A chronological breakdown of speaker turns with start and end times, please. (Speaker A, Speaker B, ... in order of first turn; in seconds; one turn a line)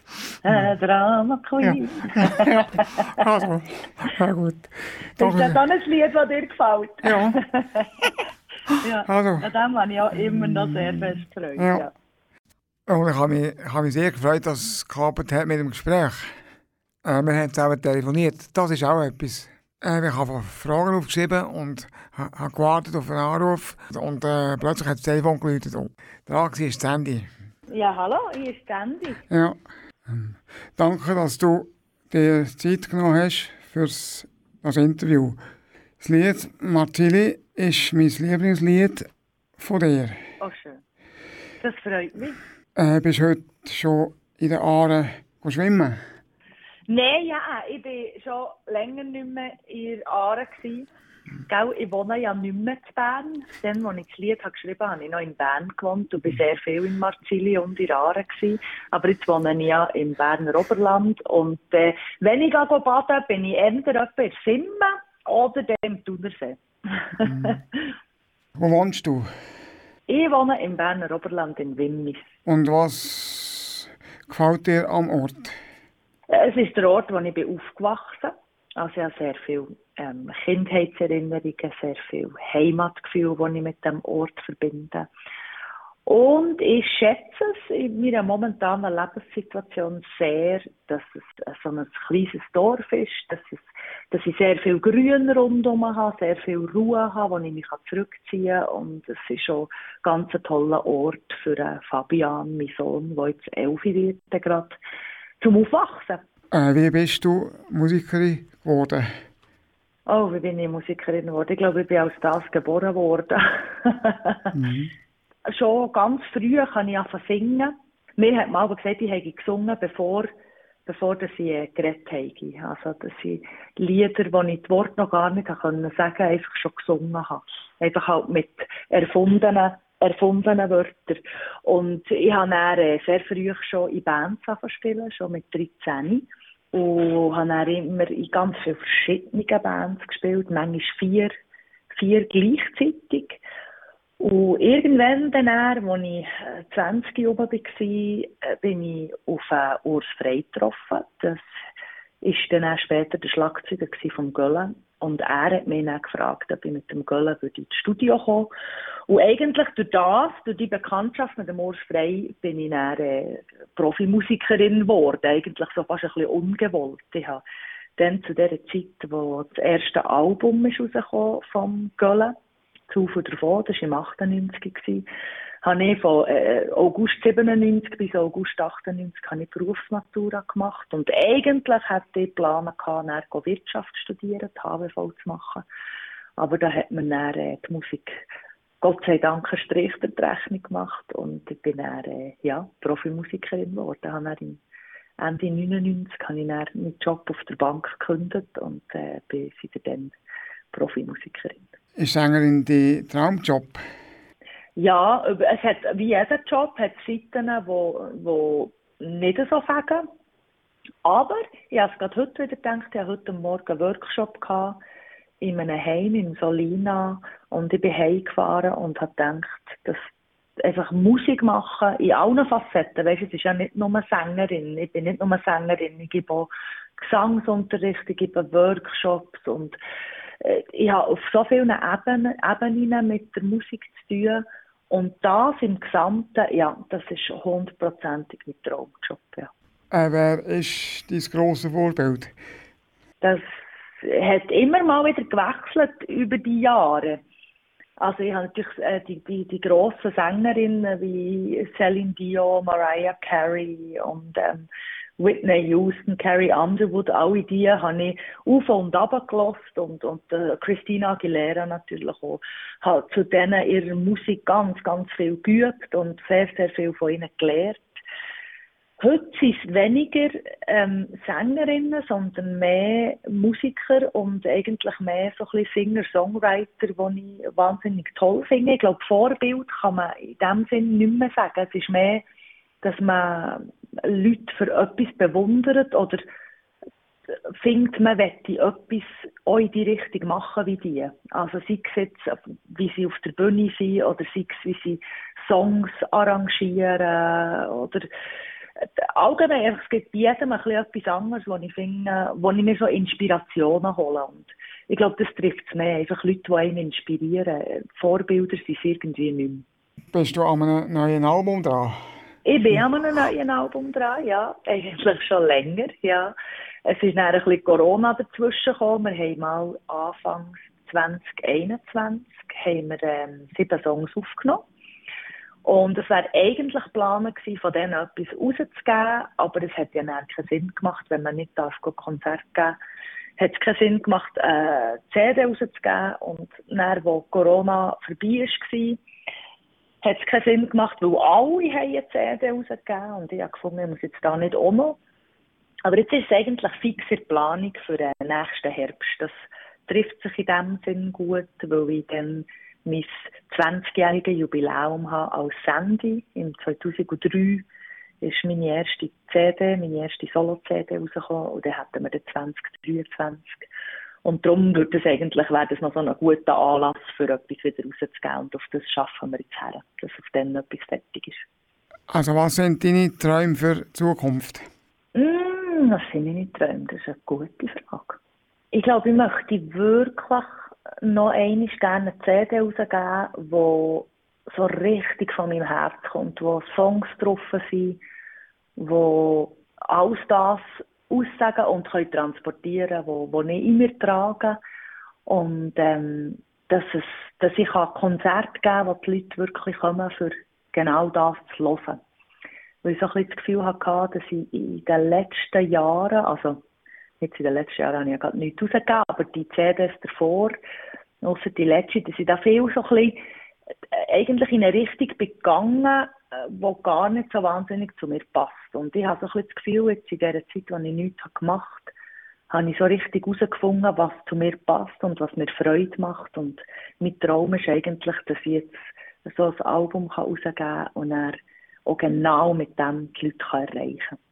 Speaker A: 0.4-3.3
Speaker B: 1.6-5.6
Speaker A: 5.2-7.9
Speaker B: 7.0-7.4
Speaker A: 8.8-11.9
Speaker B: 9.0-9.5
Speaker B: 10.2-11.8
Speaker B: 12.9-16.3
Speaker B: 17.0-27.3
Speaker A: 27.7-29.2
Speaker B: 29.3-35.4
Speaker B: 36.0-40.2
Speaker A: 40.4-40.8
Speaker A: 41.6-42.4
Speaker B: 42.7-46.0
Speaker A: 46.9-50.9
Speaker A: 51.5-67.6
Speaker B: 67.2-67.6
Speaker B: 68.5-69.3
Speaker A: 70.1-72.3
Speaker B: 72.5-75.5
Speaker A: 76.3-85.1
Speaker A: 86.0-104.8
Speaker A: 105.4-106.2
Speaker B: 106.5-109.1
Speaker A: 110.1-114.5
Speaker B: 114.5-114.9
Speaker A: 115.5-120.3
Speaker A: 120.8-141.3
Speaker A: 141.9-143.4
Speaker A: 144.2-151.4
Speaker A: 152.2-158.5
Speaker A: 159.1-167.4
Speaker A: 168.0-172.3
Speaker A: 172.9-175.1
Speaker A: 175.6-185.7
Speaker A: 186.4-188.2
Speaker A: 188.8-194.6
Speaker A: 195.2-200.1
Speaker A: 200.7-201.7
Speaker B: 202.0-203.8
Speaker A: 204.8-210.1
Speaker A: 211.0-214.8
Speaker A: 215.4-220.0
Speaker A: 220.6-229.8
Speaker A: 230.4-239.5
Speaker B: 239.9-242.3
Speaker A: 244.0-247.2
Speaker A: 248.0-254.7
Speaker A: 255.2-267.8
Speaker A: 269.0-282.2
Speaker A: 282.8-286.2
Speaker A: 287.6-298.1
Speaker A: 299.1-309.6
Speaker B: 310.1-312.0
Speaker A: 312.4-316.3
Speaker A: 316.9-324.6
Speaker A: 325.6-332.8
Speaker A: 333.4-339.0
Speaker A: 340.0-345.0
Speaker A: 345.8-349.3
Speaker A: 349.9-357.6
Speaker A: 358.2-363.6
Speaker A: 364.2-371.4
Speaker B: 372.1-374.7
Speaker A: 375.1-378.2
Speaker A: 378.7-388.0
Speaker A: 388.8-394.6
Speaker A: 395.3-402.0
Speaker A: 402.8-406.6
Speaker A: 407.2-410.6
Speaker A: 411.2-413.2
Speaker A: 413.9-421.9
Speaker A: 422.5-434.2